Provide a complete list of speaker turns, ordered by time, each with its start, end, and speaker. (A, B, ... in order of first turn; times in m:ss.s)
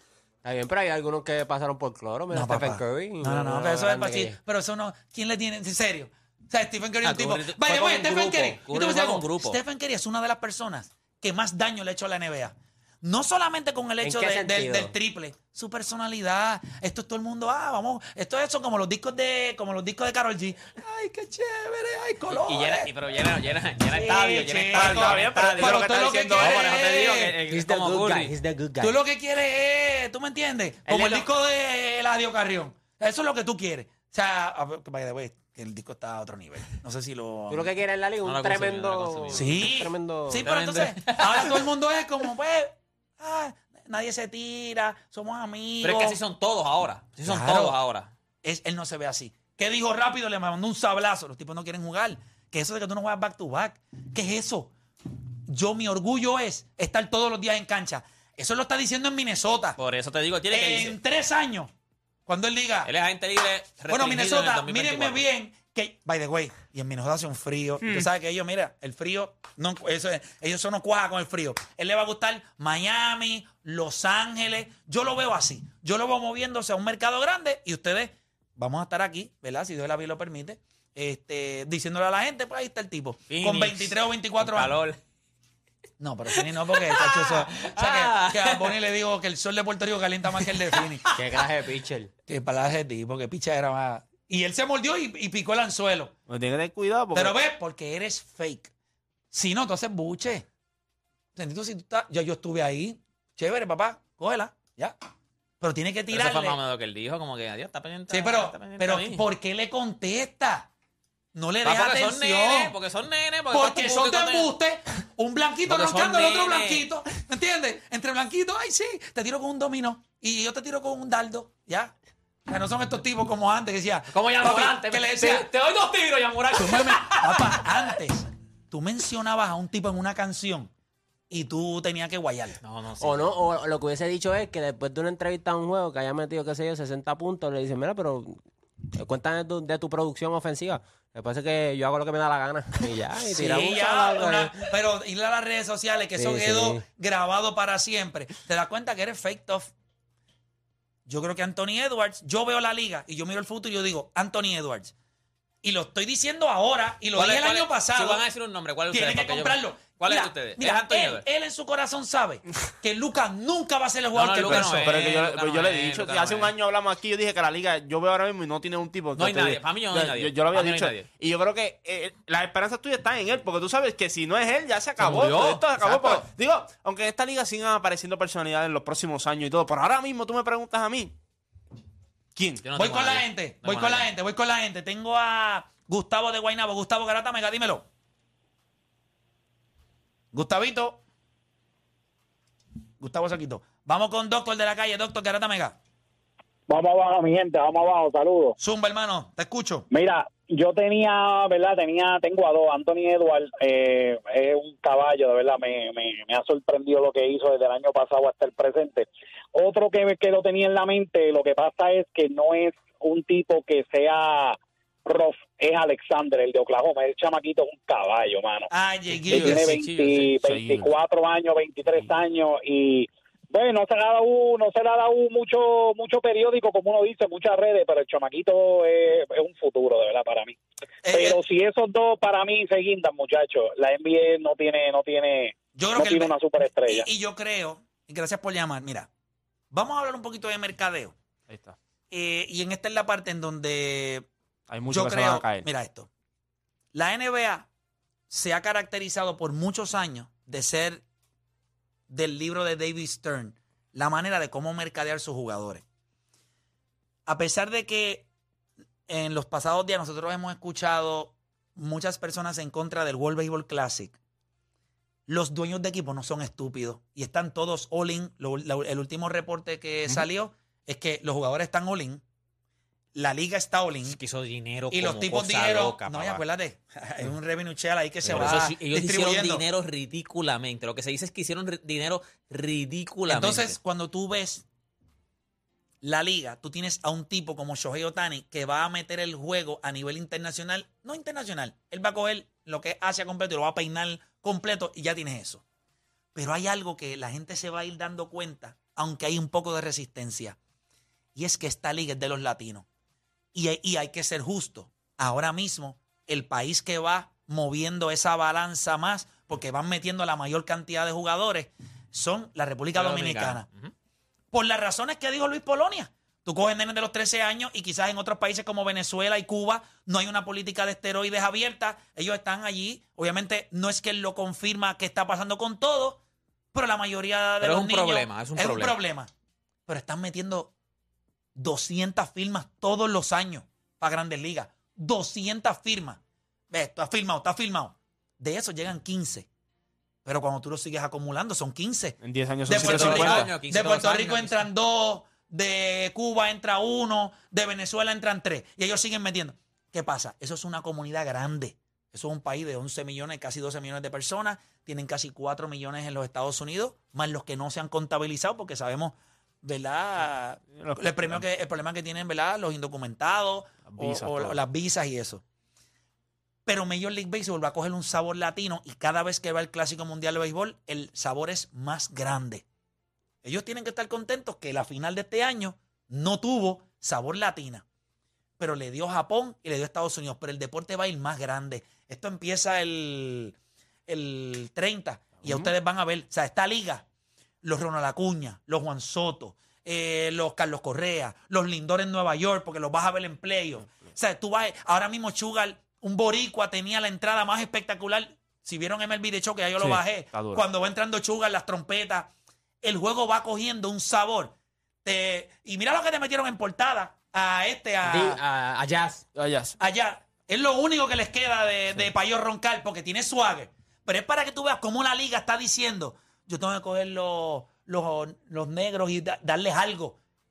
0:00.4-0:04.4 A
0:02.3-0:22.9 B
0:07.0-0:09.6 C
0:14.0-0:15.0 A
0:22.3-0:28.3 C
0:24.0-0:24.5 A
0:24.0-0:27.4 B
0:24.8-0:26.8 D
0:27.5-0:29.0 A
0:28.8-0:37.7 B
0:30.9-0:31.3 A
0:37.5-0:40.5 A
0:38.2-0:39.6 C
0:39.3-0:46.2 B
0:40.4-0:41.7 C
0:45.8-0:48.1 C
0:47.3-0:47.8 B
0:48.4-0:54.7 B
0:55.5-0:59.8 B
0:59.8-1:01.0 C
1:00.5-1:01.7 B
1:02.3-1:02.9 B
1:02.8-1:05.3 C
1:03.9-1:24.8 B
1:23.3-1:25.0 C
1:26.0-1:31.1 B
1:26.3-1:28.8 C
1:30.4-1:31.2 C
1:31.2-1:32.1 A
1:32.3-1:36.1 B
1:36.3-1:37.4 D
1:37.1-1:38.7 B
1:39.3-1:40.5 B
1:41.4-1:45.0 B
1:45.6-1:46.6 B
1:46.1-1:49.2 C
1:48.1-1:50.7 B
1:51.3-1:52.7 B
1:51.6-1:54.5 C
1:53.5-2:01.9 B
1:55.7-1:56.8 C
2:02.5-2:05.5 B
2:04.1-2:08.0 C
2:06.6-2:10.7 B
2:11.3-2:12.6 B
2:12.6-2:13.3 C
2:13.0-2:18.4 A
2:18.9-2:24.7 A
2:23.3-2:29.7 B
2:26.2-2:26.8 A
2:31.1-2:34.9 B
2:35.6-2:38.2 B
2:37.2-2:41.3 C
2:38.9-2:45.0 B
2:44.1-2:46.5 C
2:44.5-3:01.1 D
2:49.2-2:51.1 C
2:55.0-2:56.3 C
3:02.4-3:02.6 D
3:02.6-3:04.1 C
3:02.8-3:07.9 B
3:10.3-3:11.0 B
3:13.0-3:15.8 B
3:16.7-3:18.6 E
3:18.6-3:19.9 B
3:19.9-3:38.7 E
3:38.7-3:39.7 B
3:39.1-3:40.3 C
3:39.3-3:57.1 E
3:40.4-3:40.9 D
3:51.0-3:51.4 B
3:55.8-3:59.1 B
3:59.7-4:01.2 B
4:01.5-4:01.8 D
4:02.1-4:04.3 B
4:04.7-4:05.7 D
4:04.9-4:06.1 B
4:06.9-4:07.7 B
4:08.3-4:11.0 B
4:12.1-4:15.8 B
4:17.3-4:18.3 B
4:19.1-4:24.2 B
4:25.3-4:32.2 B
4:33.1-4:34.2 B
4:34.0-4:36.4 C
4:34.9-4:39.6 B
4:38.2-4:38.6 D
4:38.3-4:43.8 C
4:43.3-4:44.6 B
4:46.0-4:55.6 B
4:56.4-5:00.6 B
5:01.4-5:02.9 B
5:03.5-5:13.7 B
5:13.0-5:13.9 C
5:14.5-5:26.2 B
5:26.7-5:29.3 B
5:27.6-5:29.0 C
5:29.9-5:30.7 B
5:31.6-5:36.2 B
5:36.7-5:39.5 B
5:40.2-6:05.4 B
5:42.2-5:43.6 D
5:42.7-5:44.7 C
6:00.7-6:01.4 D
6:03.8-6:04.6 D
6:06.7-6:12.6 B
6:13.4-6:17.8 B
6:18.6-6:23.6 B
6:24.1-6:27.0 B
6:25.4-6:25.7 D
6:27.6-6:42.3 B
6:33.8-6:34.1 D
6:39.8-6:40.6 D
6:42.8-6:44.5 B
6:45.0-6:48.4 B
6:48.0-6:49.3 A
6:49.4-6:49.8 D
6:49.8-7:00.2 B